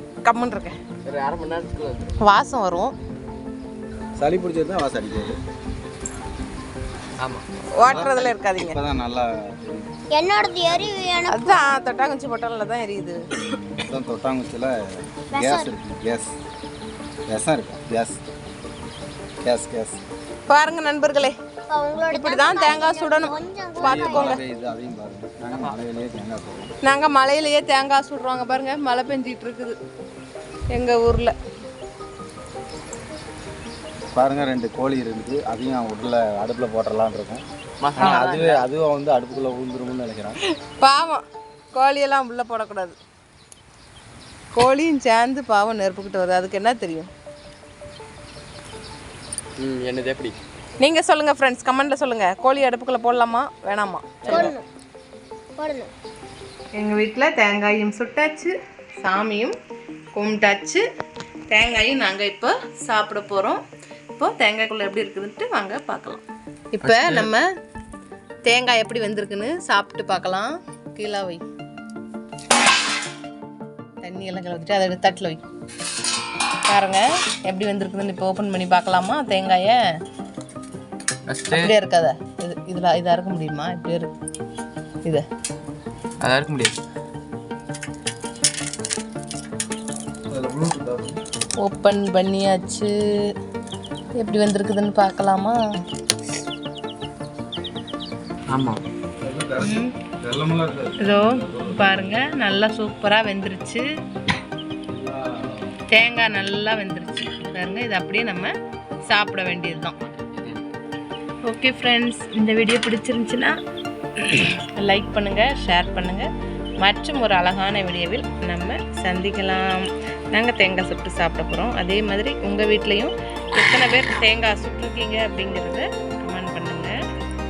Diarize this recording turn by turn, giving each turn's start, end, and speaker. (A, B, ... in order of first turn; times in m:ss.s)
0:00.2-0:00.8 A
0:01.0-0:02.2 B
0:02.2-0:03.0 A
0:04.2-0:05.4 C
0:07.8-0:08.8 A
0:07.8-0:10.0 C
0:10.1-0:11.6 D
0:11.3-0:13.3 A
0:13.3-0:16.4 C
0:15.3-0:15.7 D
0:17.3-0:18.2 C
0:19.4-0:20.0 C
0:20.5-0:21.4 A
0:21.7-0:24.4 D
0:22.1-0:24.4 A
0:23.8-0:26.7 C
0:26.8-0:29.8 A
0:30.7-0:31.4 A
0:34.1-0:37.4 C
0:37.8-0:38.6 B
0:38.0-0:40.4 C
0:38.0-0:38.3 A
0:40.6-0:43.0 A
0:44.5-0:47.1 A
0:49.6-0:50.4 B
0:50.8-0:54.5 A
0:54.2-0:54.6 B
0:54.3-0:54.7 D
0:55.6-0:55.9 D
0:56.8-0:59.6 A
1:00.2-1:00.8 A
1:01.5-1:03.6 A
1:04.2-1:07.5 A
1:06.8-1:07.3 B
1:08.4-1:11.4 A
1:14.0-1:15.4 A
1:16.7-1:19.8 A
1:21.3-1:21.7 B
1:21.5-1:24.1 A
1:26.2-1:26.8 B
1:30.3-1:31.2 C
1:31.6-1:33.3 A
1:34.2-1:35.6 A
1:38.5-1:38.8 B
1:39.2-1:41.9 C
1:39.6-1:39.9 A
1:41.0-1:43.8 A
1:44.9-1:45.8 C
1:45.9-1:48.5 A
1:49.1-1:50.0 A
1:50.0-1:50.6 B
1:51.4-1:53.6 A
1:54.2-1:56.3 A
1:56.8-2:06.9 A